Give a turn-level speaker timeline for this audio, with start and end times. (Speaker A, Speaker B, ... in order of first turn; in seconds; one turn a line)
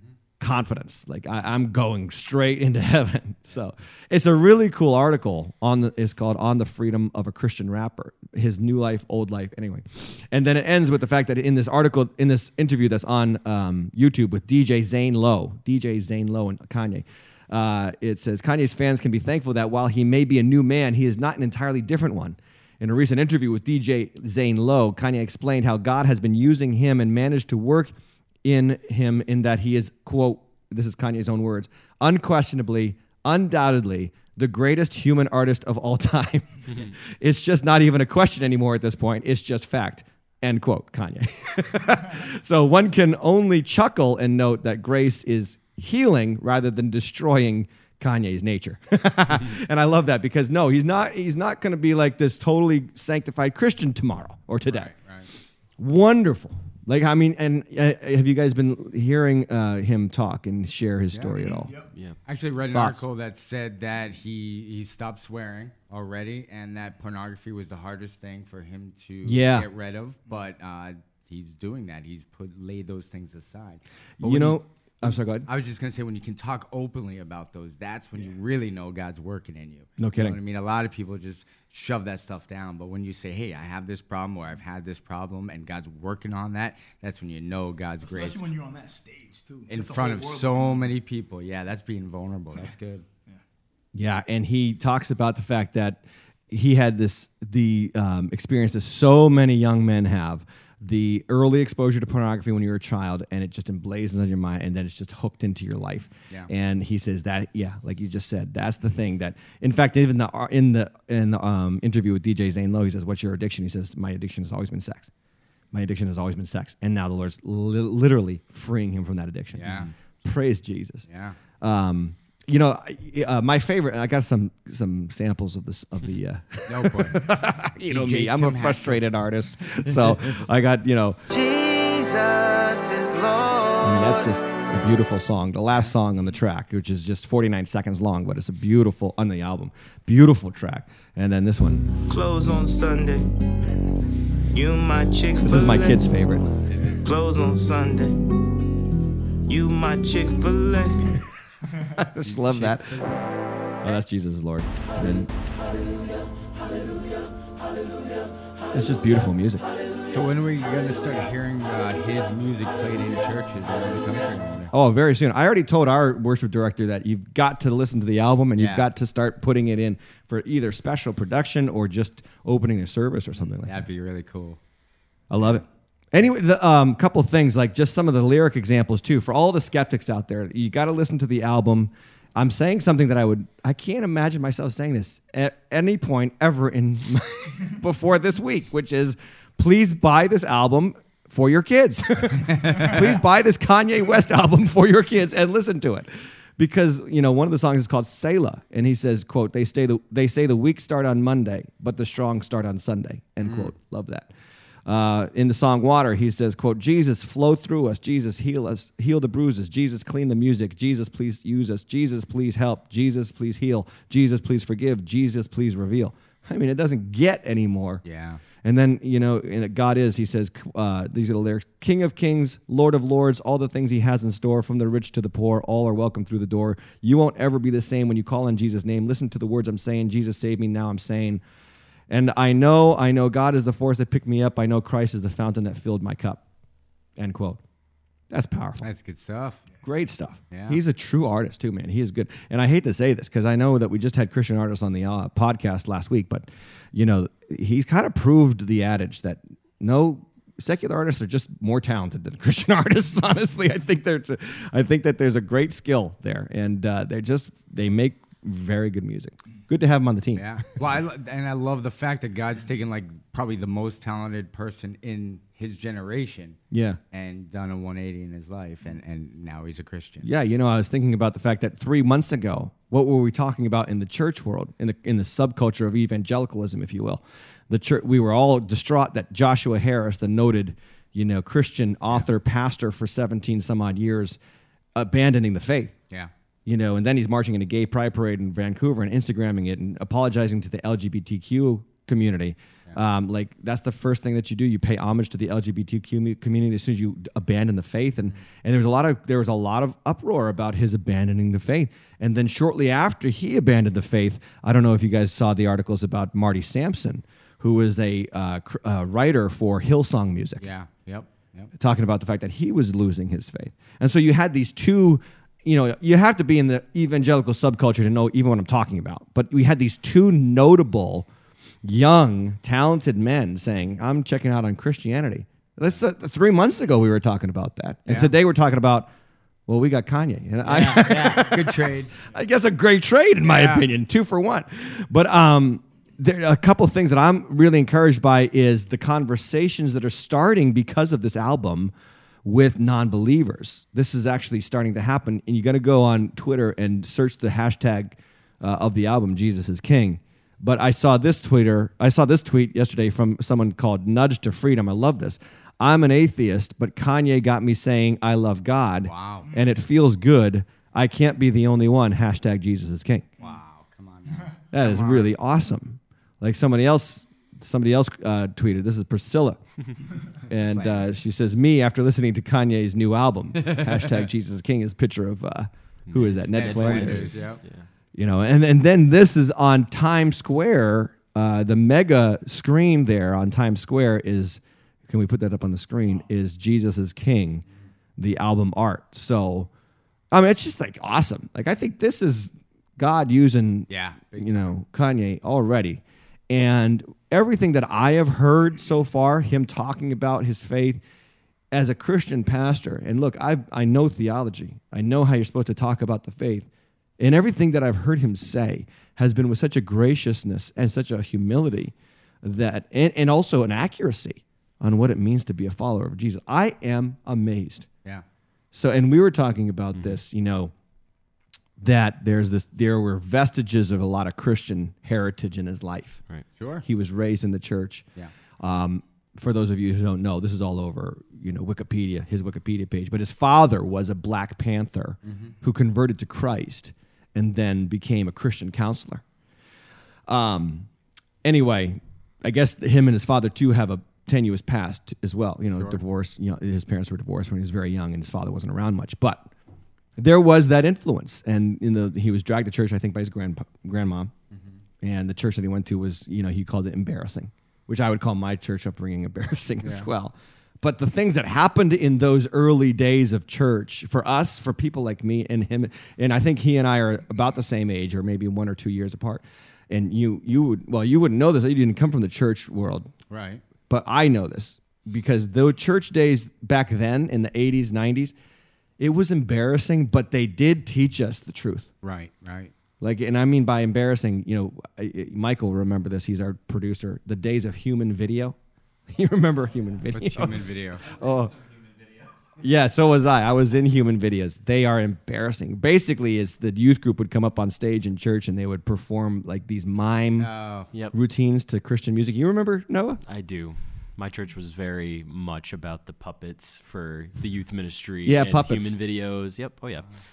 Speaker A: 0.4-27.9
Speaker A: 28.4-54.9
Speaker B: 54.6-55.3
Speaker A: 55.8-61.7
Speaker B: 61.1-61.6
Speaker C: 61.6-61.9
Speaker D: 61.9-62.2
Speaker B: 62.2-88.4
Speaker A: 62.7-63.0
Speaker A: 69.2-69.7
Speaker A: 74.2-75.5
Speaker A: 80.0-80.4
Speaker C: 88.0-90.9
Speaker B: 89.7-93.0
Speaker A: 93.9-115.1
Speaker A: 115.7-121.0
Speaker B: 119.6-119.9
Speaker B: 121.1-121.4
Speaker A: 121.6-131.2
Speaker B: 126.7-129.0
Speaker E: 131.3-134.3
Speaker A: 133.8-141.9
Speaker E: 142.0-143.3
Speaker E: 144.5-146.2
Speaker A: 145.4-146.5
Speaker E: 146.8-148.2
Speaker E: 149.4-151.2
Speaker A: 151.8-153.1
Speaker B: 152.2-153.3
Speaker A: 153.8-155.3
Speaker A: 158.7-159.6
Speaker B: 160.1-164.7
Speaker A: 164.7-173.8
Speaker B: 168.6-168.9
Speaker B: 173.4-174.6
Speaker A: 175.3-204.3
Speaker B: 203.4-203.7
Speaker A: 204.8-218.0
Speaker B: 218.0-218.4
Speaker A: 218.6-231.4
Speaker A: 232.1-236.4
Speaker A: 237.2-237.6
Speaker A: 238.3-238.9
Speaker B: 238.8-239.6
Speaker A: 239.8-260.5
Speaker B: 240.5-240.8
Speaker B: 260.4-266.6
Speaker A: 266.7-267.0
Speaker B: 267.1-270.3
Speaker A: 270.2-284.4
Speaker A: 284.9-285.9
Speaker A: 286.6-310.6
Speaker B: 310.6-311.7
Speaker A: 311.8-321.3
Speaker A: 321.8-329.1
Speaker B: 328.1-328.3
Speaker A: 329.7-341.9
Speaker B: 330.6-332.2
Speaker B: 333.4-333.9
Speaker A: 342.4-363.2
Speaker B: 359.0-359.5
Speaker B: 363.4-365.3
Speaker A: 364.7-377.5
Speaker B: 370.6-371.1
Speaker B: 373.7-373.9
Speaker D: 376.1-377.9
Speaker B: 376.5-377.6
Speaker A: 378.1-387.6
Speaker A: 388.2-389.7
Speaker A: 390.3-401.0
Speaker B: 393.9-394.8
Speaker A: 401.7-406.7
Speaker A: 407.2-417.9
Speaker A: 418.7-420.7
Speaker A: 421.8-426.2
Speaker B: 426.6-426.8
Speaker A: 426.8-428.1
Speaker A: 428.6-439.2
Speaker B: 435.2-435.5
Speaker A: 440.3-440.9
Speaker A: 441.4-449.5
Speaker B: 445.7-446.0
Speaker A: 450.2-454.3
Speaker A: 455.0-473.1
Speaker B: 473.3-473.6
Speaker A: 473.9-478.3
Speaker A: 479.0-481.9
Speaker B: 482.0-482.7
Speaker A: 483.0-488.6
Speaker A: 489.1-491.6
Speaker B: 490.1-491.1
Speaker A: 492.6-500.5
Speaker B: 500.4-500.9
Speaker A: 501.1-503.2
Speaker D: 503.2-510.1
Speaker A: 508.2-508.9